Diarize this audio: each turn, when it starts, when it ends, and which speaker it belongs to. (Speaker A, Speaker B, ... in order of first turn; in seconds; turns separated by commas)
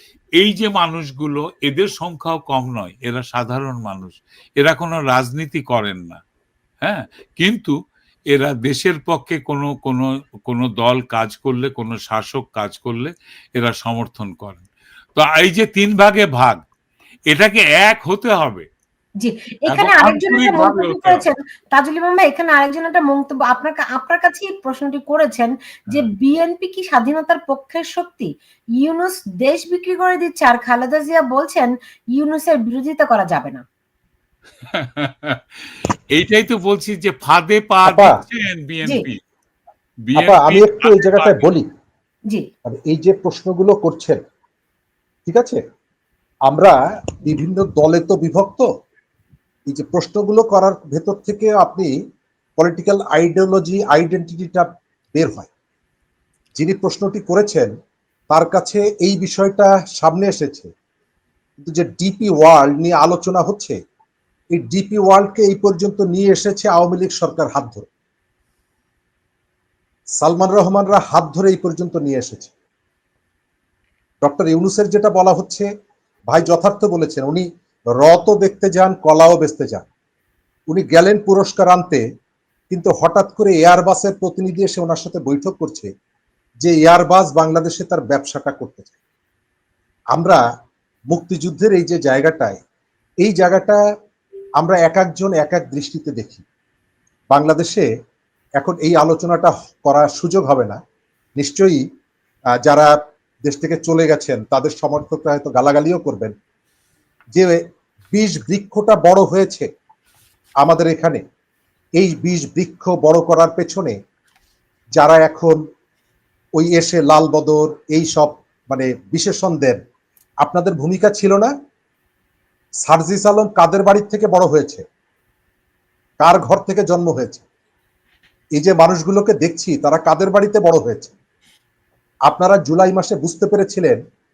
Speaker A: 0.4-6.2, Speaker A: 6.8-7.7, Speaker A: 8.3-14.6, Speaker A: 15.2-16.6, Speaker A: 17.3-18.6, Speaker B: 19.2-33.6, Speaker A: 19.7-21.2, Speaker A: 34.7-39.2, Speaker C: 37.8-38.2, Speaker A: 40.1-41.5, Speaker C: 40.1-41.7, Speaker C: 42.6-44.2, Speaker C: 45.2-45.6, Speaker C: 46.5-48.7, Speaker C: 49.7-51.9, Speaker C: 52.6-55.5, Speaker C: 56.6-57.7, Speaker C: 58.3-60.7, Speaker C: 61.6-63.8, Speaker C: 64.5-67.9, Speaker C: 70.2-72.5, Speaker C: 74.2-75.7, Speaker C: 76.3-79.9, Speaker C: 80.7-82.0, Speaker C: 82.7-85.9, Speaker C: 86.6-88.9, Speaker C: 90.1-90.4, Speaker C: 91.1-92.6, Speaker C: 93.2-93.8, Speaker C: 94.6-96.4, Speaker C: 97.3-97.9, Speaker C: 98.6-100.8, Speaker C: 101.4-101.8, Speaker C: 102.6-102.9, Speaker C: 103.4-106.3, Speaker C: 107.3-109.7, Speaker C: 110.6-111.2, Speaker C: 112.0-114.0, Speaker C: 115.0-115.6, Speaker C: 116.5-119.8, Speaker C: 120.4-121.5, Speaker C: 122.8-124.8, Speaker C: 126.2-127.4, Speaker C: 128.6-131.1, Speaker C: 132.3-134.0